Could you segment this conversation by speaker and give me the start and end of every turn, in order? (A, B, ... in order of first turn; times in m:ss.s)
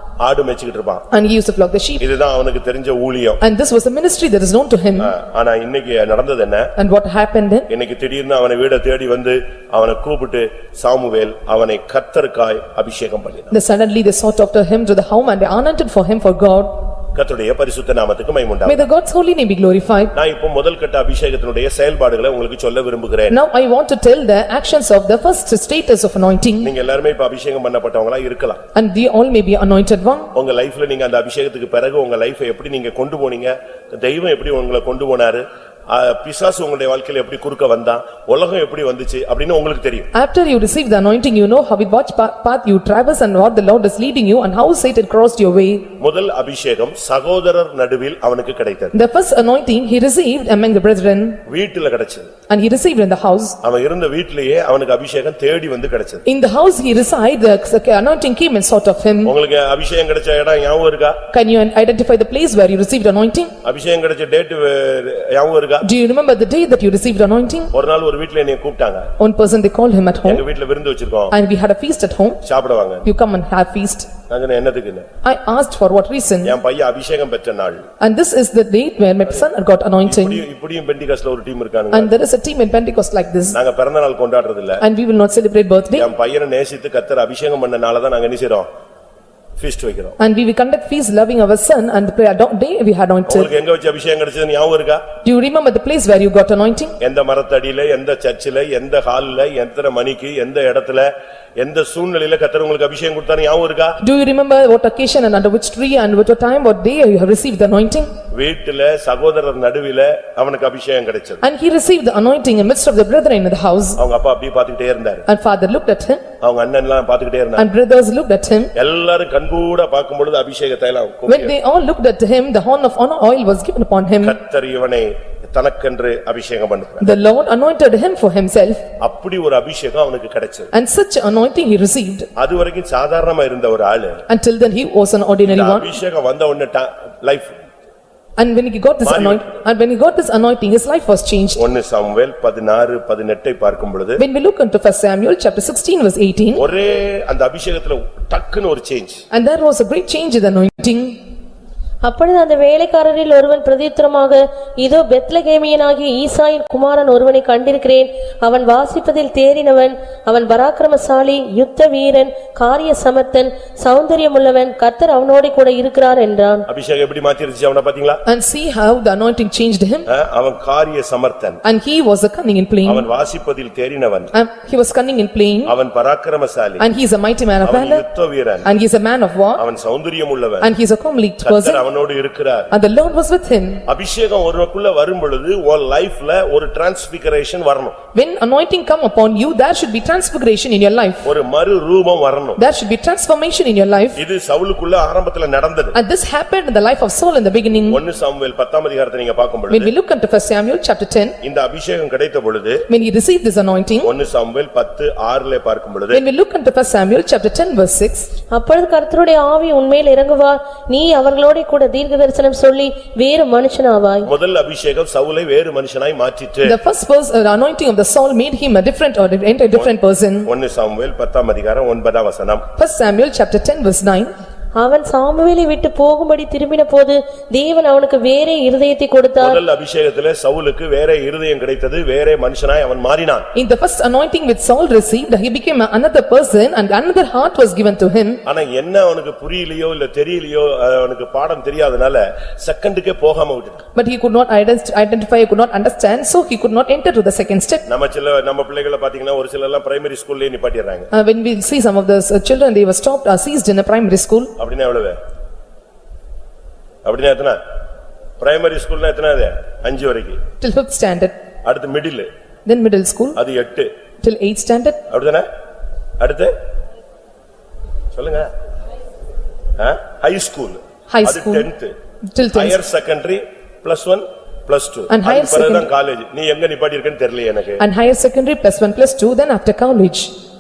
0:00.2-0:01.0 A
0:01.1-0:02.0 B
0:02.0-0:03.4 A
0:03.4-0:05.1 B
0:05.0-0:06.7 A
0:06.8-0:07.7 B
0:07.7-0:13.5 A
0:13.5-0:16.8 B
0:17.1-0:18.8 A
0:18.6-0:20.1 B
0:20.1-0:23.3 A
0:23.3-0:26.7 B
0:26.6-0:28.6 A
0:28.7-0:30.3 B
0:30.3-0:40.1 A
0:40.1-0:45.9 B
0:46.0-0:48.9 A
0:48.9-0:51.4 B
0:51.4-0:52.3 A
0:52.5-0:53.6 B
0:53.6-0:56.2 A
0:56.2-0:59.3 B
0:59.2-1:01.2 A
1:01.3-1:03.5 B
1:03.6-1:05.9 A
1:05.8-1:07.7 B
1:07.7-1:09.1 A
1:09.2-1:10.4 B
1:10.2-1:11.3 A
1:11.3-1:12.4 B
1:12.4-1:13.0 A
1:13.0-1:14.1 B
1:14.3-1:15.1 A
1:15.2-1:16.5 B
1:16.4-1:17.8 A
1:18.0-1:20.4 B
1:20.0-1:22.1 A
1:21.9-1:23.6 B
1:23.5-1:24.8 A
1:24.8-1:26.1 B
1:25.9-1:28.7 A
1:29.6-1:30.2 A
1:30.2-1:33.5 B
1:33.3-1:35.0 A
1:35.2-1:37.0 B
1:37.0-1:44.0 A
1:44.0-1:48.1 B
1:48.3-1:51.4 A
1:51.4-1:54.0 B
1:54.0-1:55.2 A
1:55.3-1:56.2 B
1:56.4-1:57.7 A
1:57.6-1:58.7 B
1:58.7-2:01.5 A
2:01.3-2:04.4 B
2:04.2-2:07.1 A
2:07.0-2:08.8 B
2:09.0-2:10.7 A
2:10.7-2:12.3 B
2:12.4-2:14.2 A
2:14.3-2:16.0 B
2:15.4-2:17.6 A
2:18.4-2:21.6 B
2:19.0-2:19.6 A
2:21.6-2:24.2 A
2:24.2-2:26.6 B
2:26.5-2:29.2 A
2:29.3-2:31.2 B
2:32.0-2:46.6 C
2:46.7-2:48.2 A
2:48.2-2:50.1 B
2:50.1-2:51.6 A
2:51.6-2:53.0 B
2:52.8-2:54.3 A
2:54.3-2:55.7 B
2:55.6-2:56.8 A
2:56.8-2:58.0 B
2:57.6-2:58.7 A
2:58.6-2:59.6 B
2:59.6-3:00.7 A
3:00.6-3:01.8 B
3:01.4-3:02.7 A
3:02.7-3:03.8 B
3:03.9-3:08.0 A
3:08.1-3:11.3 B
3:11.2-3:12.6 A
3:12.6-3:14.2 B
3:14.2-3:16.0 A
3:15.9-3:18.0 B
3:17.9-3:19.9 A
3:19.7-3:21.4 B
3:21.4-3:22.8 A
3:22.9-3:24.1 B
3:24.0-3:26.2 A
3:26.1-3:28.3 B
3:28.5-3:34.3 C
3:34.2-3:36.8 A
3:36.6-3:40.5 B
3:40.4-3:42.6 A
3:42.8-3:44.3 B
3:44.8-3:49.6 C
3:49.4-3:53.5 A
3:53.5-3:58.4 B
3:58.4-4:03.8 A
4:03.9-4:07.8 B
4:07.9-4:11.1 A
4:11.1-4:14.5 B
4:14.6-4:15.2 A
4:17.0-4:17.6 A
4:18.4-4:20.4 A
4:20.6-4:21.3 B
4:21.6-4:22.3 A
4:22.6-4:23.4 B
4:23.4-4:23.9 A
4:24.2-4:25.0 B
4:25.1-4:25.4 A
4:26.2-4:26.5 A
4:28.1-4:28.5 A
4:29.8-4:31.9 A
4:31.1-4:31.7 B
4:32.3-4:32.8 B
4:32.5-4:37.8 A
4:35.1-4:35.9 B
4:37.8-4:40.3 B